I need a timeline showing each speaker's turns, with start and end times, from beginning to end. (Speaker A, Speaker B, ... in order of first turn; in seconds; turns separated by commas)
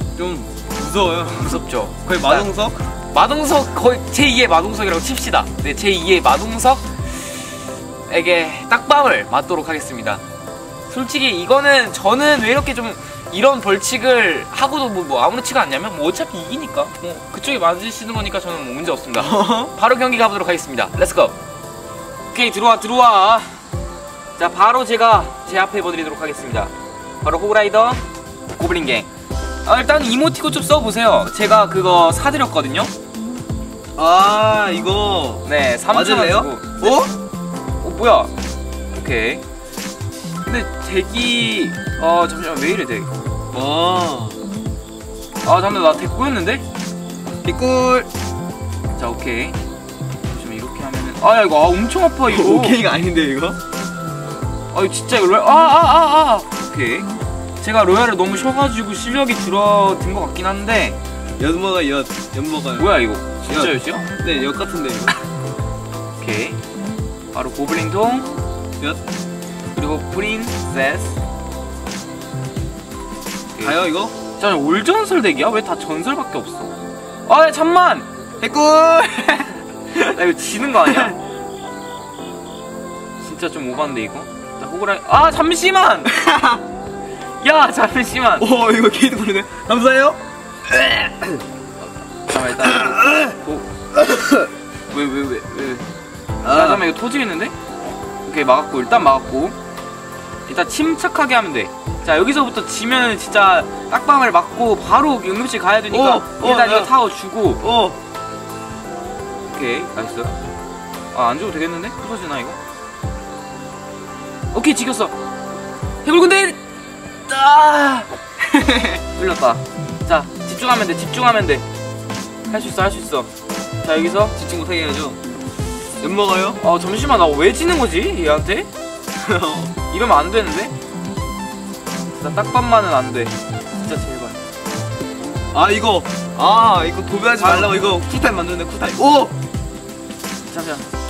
Speaker A: 0.2-2.8, Speaker B: 1.4-2.5, Speaker B: 3.1-7.5, Speaker B: 8.1-10.2, Speaker B: 10.9-21.4, Speaker A: 19.1-19.7, Speaker B: 22.3-23.5, Speaker B: 24.4-28.0, Speaker B: 28.6-29.1, Speaker B: 29.6-32.9, Speaker A: 34.0-37.1, Speaker B: 35.4-37.0, Speaker B: 37.8-38.3, Speaker B: 38.9-39.4, Speaker B: 40.5-43.1, Speaker A: 43.5-44.4, Speaker B: 45.4-46.6, Speaker A: 47.4-48.1, Speaker B: 49.0-49.6, Speaker B: 50.3-52.8, Speaker A: 52.2-53.6, Speaker B: 54.7-57.1, Speaker B: 57.6-61.0, Speaker A: 61.4-65.2, Speaker B: 62.8-64.0, Speaker B: 66.2-66.6, Speaker B: 67.3-68.3, Speaker B: 69.7-71.2, Speaker B: 73.5-76.7, Speaker A: 73.6-74.1, Speaker B: 77.2-78.1, Speaker A: 78.4-79.6, Speaker B: 79.9-81.2, Speaker A: 80.8-81.2, Speaker B: 83.2-86.1, Speaker A: 86.1-86.6, Speaker B: 87.4-88.5, Speaker A: 88.4-90.2, Speaker A: 90.8-91.3, Speaker B: 92.3-93.7, Speaker A: 92.6-93.3, Speaker A: 93.9-94.5, Speaker B: 94.9-95.8, Speaker A: 96.4-96.8, Speaker B: 96.4-97.5, Speaker B: 98.2-99.6, Speaker B: 100.5-107.6, Speaker A: 105.9-106.9, Speaker A: 107.6-108.0, Speaker B: 109.5-110.4, Speaker B: 111.1-112.6, Speaker B: 114.5-115.1, Speaker B: 116.0-116.6, Speaker B: 117.3-121.6, Speaker B: 122.5-123.3, Speaker B: 123.8-124.3, Speaker A: 124.3-125.2, Speaker A: 126.0-126.6, Speaker B: 126.6-128.7, Speaker A: 129.2-129.8, Speaker B: 129.9-130.7, Speaker B: 132.1-134.4, Speaker A: 135.5-139.3, Speaker B: 137.4-137.8, Speaker B: 140.5-140.8